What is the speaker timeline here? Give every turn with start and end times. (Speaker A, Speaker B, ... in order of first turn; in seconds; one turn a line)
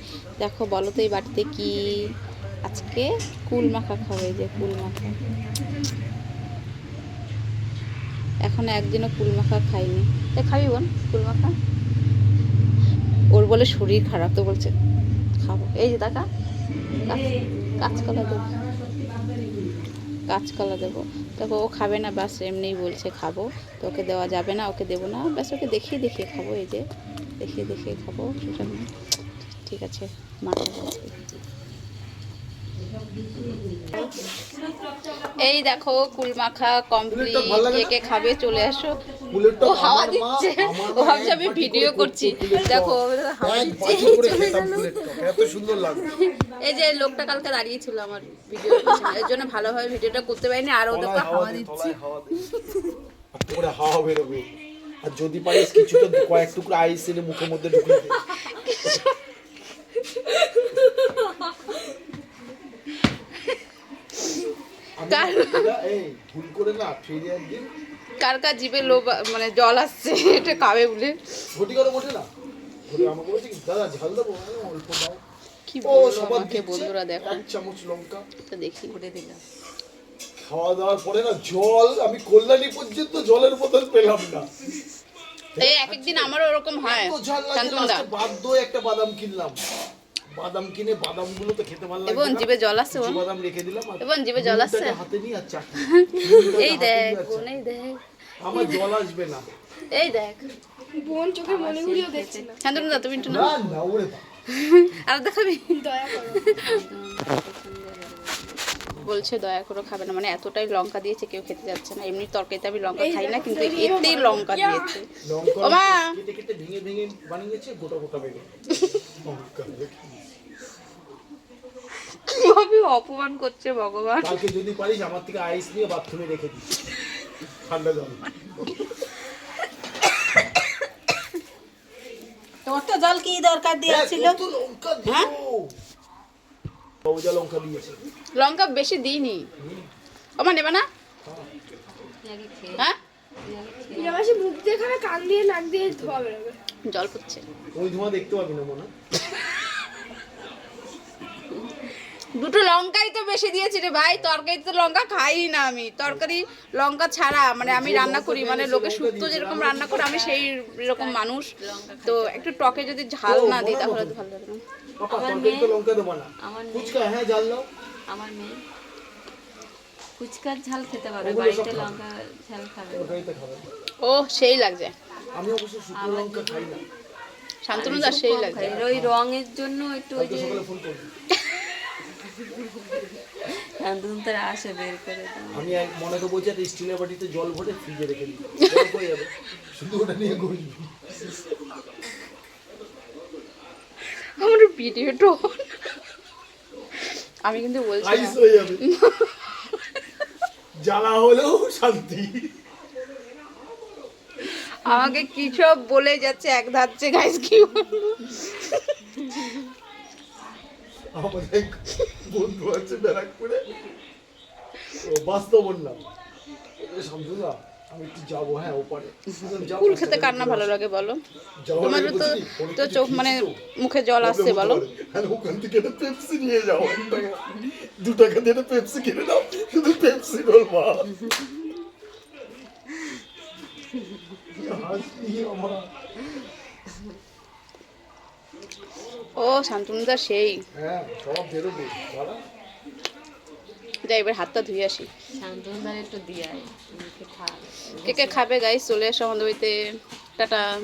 Speaker A: 0.4-1.7
Speaker A: 2.7-5.2
Speaker A: 8.5-11.5
Speaker A: 13.3-14.7
Speaker A: 15.4-16.2
Speaker A: 17.8-18.5
Speaker A: 20.3-26.8
Speaker A: 27.4-28.9
Speaker A: 29.6-31.3
Speaker B: 33.4-33.9
Speaker A: 35.2-39.0
Speaker C: 37.1-37.9
Speaker C: 39.3-46.2
Speaker A: 39.6-44.7
Speaker D: 44.1-45.4
Speaker A: 46.3-51.9
Speaker C: 50.9-52.5
Speaker C: 53.3-54.5
Speaker C: 55.0-58.2
Speaker A: 57.9-59.1
Speaker A: 60.3-61.0
Speaker C: 65.0-67.7
Speaker A: 65.1-65.7
Speaker A: 68.2-71.2
Speaker C: 71.5-72.3
Speaker C: 72.9-75.2
Speaker A: 75.7-77.4
Speaker C: 75.8-78.3
Speaker A: 78.5-79.0
Speaker B: 78.9-79.4
Speaker C: 80.4-84.5
Speaker C: 85.5-89.6
Speaker A: 85.6-88.1
Speaker C: 90.3-97.5
Speaker A: 92.1-93.2
Speaker A: 94.0-95.0
Speaker A: 95.8-98.0
Speaker C: 98.4-99.5
Speaker A: 98.5-98.9
Speaker A: 99.9-100.5
Speaker D: 101.0-102.6
Speaker B: 101.4-103.6
Speaker A: 102.6-103.6
Speaker C: 103.3-104.2
Speaker A: 104.5-106.8
Speaker D: 105.8-106.5
Speaker B: 106.5-108.9
Speaker C: 108.9-109.3
Speaker A: 109.0-115.1
Speaker D: 113.0-115.0
Speaker C: 115.2-118.5
Speaker A: 115.6-116.1
Speaker C: 119.0-120.2
Speaker A: 122.1-124.4
Speaker C: 124.2-126.7
Speaker C: 127.6-128.8
Speaker A: 132.7-134.4
Speaker C: 133.8-135.7
Speaker A: 135.1-135.3
Speaker C: 137.1-138.0
Speaker A: 138.4-139.5
Speaker C: 139.6-139.9
Speaker A: 140.4-140.9
Speaker B: 142.2-142.9
Speaker B: 143.4-144.4
Speaker D: 143.9-146.6
Speaker C: 145.9-146.2
Speaker A: 146.9-147.4
Speaker C: 147.7-148.9
Speaker A: 152.4-161.5
Speaker C: 154.1-154.4
Speaker C: 157.6-160.2
Speaker B: 159.8-163.1
Speaker A: 162.1-164.6
Speaker C: 163.2-164.2
Speaker C: 165.0-167.7
Speaker B: 165.1-165.8
Speaker B: 166.4-167.0
Speaker B: 168.1-168.6
Speaker B: 170.2-173.2
Speaker C: 171.2-172.0
Speaker C: 172.9-173.7
Speaker A: 174.1-174.9
Speaker C: 175.3-176.8
Speaker B: 175.9-176.8
Speaker A: 177.7-178.8
Speaker B: 177.7-180.6
Speaker C: 177.8-179.1
Speaker C: 180.2-181.1
Speaker B: 182.2-185.7
Speaker C: 185.5-191.2
Speaker A: 194.2-195.7
Speaker A: 197.5-199.8
Speaker C: 198.0-198.8
Speaker C: 200.8-202.5
Speaker A: 204.6-209.4
Speaker C: 211.1-213.7
Speaker C: 215.0-216.0
Speaker C: 216.8-220.7
Speaker A: 219.7-221.2
Speaker C: 221.6-223.6
Speaker A: 221.8-224.8
Speaker C: 224.2-231.1
Speaker C: 234.5-235.9
Speaker A: 239.4-240.6
Speaker C: 240.7-242.4
Speaker A: 244.1-245.1
Speaker B: 245.3-248.4
Speaker A: 248.1-249.7
Speaker A: 250.4-250.7